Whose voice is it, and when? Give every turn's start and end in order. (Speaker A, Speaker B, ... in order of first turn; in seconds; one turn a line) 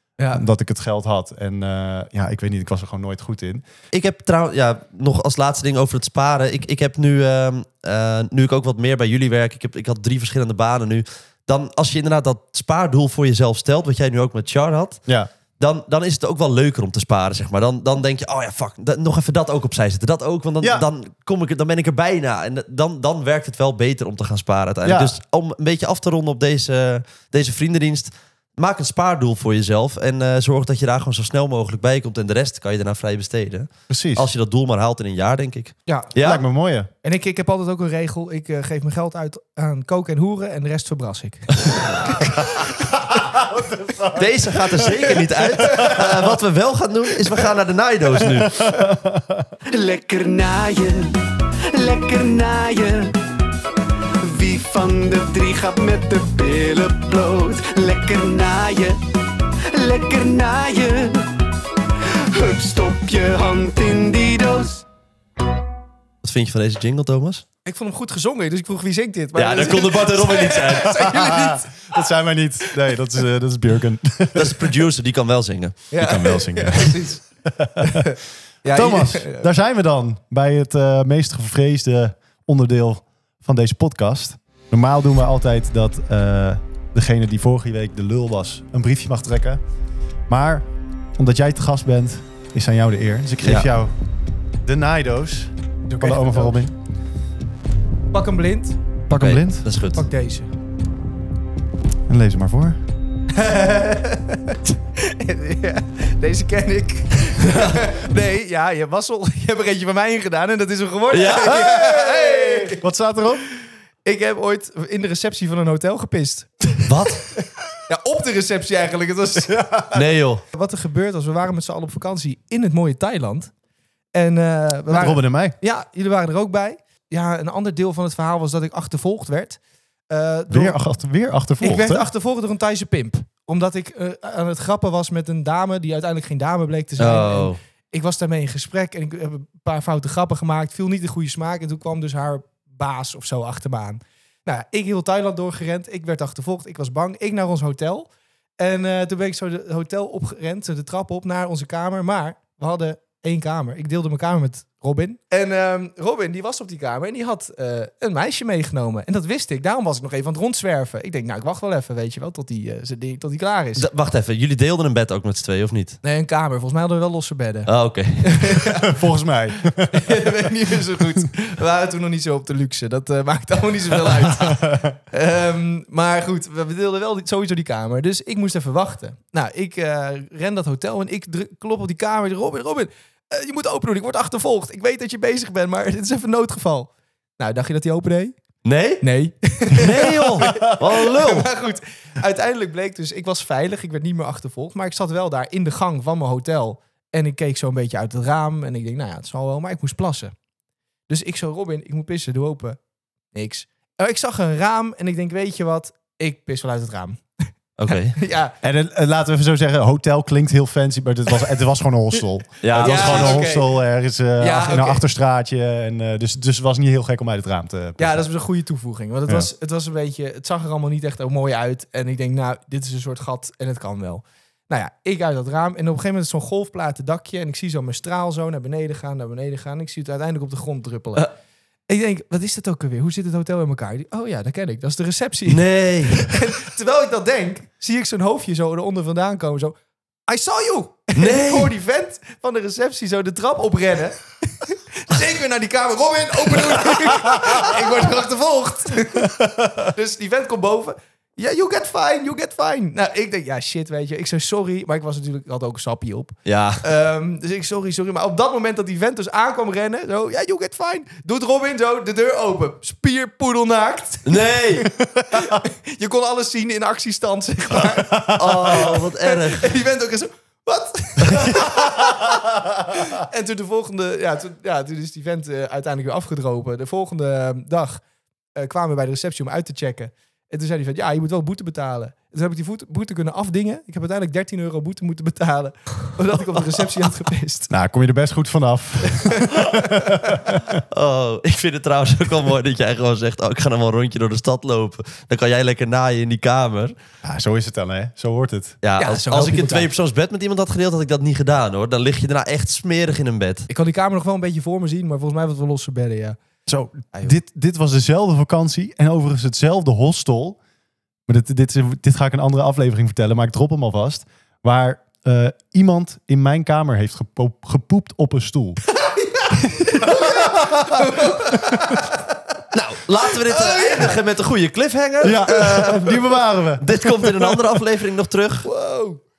Speaker A: 0.2-0.5
Speaker B: 0.3-3.6
Speaker C: 3.9-15.0
Speaker C: 15.6-36.4
Speaker B: 24.8-25.1
Speaker B: 33.9-34.3
Speaker A: 35.9-36.1
Speaker B: 36.1-36.9
Speaker A: 37.0-43.2
Speaker B: 42.6-44.5
Speaker C: 44.1-48.7
Speaker A: 45.5-46.0
Speaker B: 45.7-46.1
Speaker B: 48.2-49.5
Speaker D: 49.8-51.1
Speaker D: 51.7-53.1
Speaker D: 54.2-59.0
Speaker D: 59.7-61.2
Speaker D: 62.3-64.8
Speaker C: 66.2-67.4
Speaker A: 67.7-72.0
Speaker C: 69.3-71.1
Speaker B: 70.7-74.7
Speaker C: 74.3-75.8
Speaker A: 75.9-77.2
Speaker B: 76.0-78.1
Speaker A: 77.8-79.5
Speaker B: 78.7-89.6
Speaker B: 90.3-93.9
Speaker C: 93.4-93.7
Speaker B: 94.6-96.7
Speaker A: 95.9-96.7
Speaker A: 98.1-98.8
Speaker B: 99.1-99.7
Speaker C: 99.1-100.1
Speaker A: 99.9-100.5
Speaker B: 102.1-102.8
Speaker A: 103.3-112.8
Speaker C: 107.4-107.8
Speaker C: 111.1-111.5
Speaker B: 111.4-113.4
Speaker A: 114.0-117.1
Speaker C: 116.8-117.3
Speaker A: 117.9-119.7
Speaker B: 119.4-120.0
Speaker C: 119.9-120.4
Speaker A: 120.5-123.5
Speaker A: 124.1-129.6
Speaker B: 124.9-125.5
Speaker A: 130.1-130.8
Speaker B: 130.5-132.1
Speaker A: 131.6-148.1
Speaker C: 137.0-137.6
Speaker A: 148.6-163.9
Speaker C: 163.8-166.0
Speaker A: 166.0-167.7
Speaker C: 167.7-168.6
Speaker A: 168.2-168.9
Speaker B: 168.7-170.3
Speaker A: 169.9-188.4
Speaker B: 174.3-174.8
Speaker C: 188.6-189.0
Speaker A: 189.0-200.3
Speaker C: 189.7-191.5
Speaker A: 201.1-202.8
Speaker A: 203.3-207.2
Speaker C: 207.8-208.2
Speaker A: 208.1-208.5
Speaker B: 208.6-218.2
Speaker C: 212.6-213.4
Speaker A: 212.8-213.7
Speaker A: 214.4-215.0
Speaker A: 218.0-231.3
Speaker A: 231.9-239.7
Speaker C: 235.5-236.3
Speaker A: 240.3-278.0
Speaker C: 241.2-241.7
Speaker C: 256.4-256.8
Speaker C: 264.2-264.9
Speaker B: 265.0-265.6
Speaker B: 267.9-268.5
Speaker C: 268.3-269.7
Speaker B: 271.7-272.0
Speaker A: 278.6-287.7
Speaker B: 287.7-290.8
Speaker A: 289.1-290.6
Speaker C: 290.9-296.9
Speaker B: 297.2-298.8
Speaker C: 298.8-303.6
Speaker A: 299.0-299.9
Speaker A: 303.7-306.4
Speaker B: 306.7-310.6
Speaker A: 307.1-307.4
Speaker B: 311.3-318.8
Speaker A: 318.9-322.3
Speaker B: 319.9-322.0
Speaker C: 322.7-326.2
Speaker A: 323.3-324.2
Speaker B: 325.2-327.6
Speaker C: 326.8-328.7
Speaker A: 328.6-329.2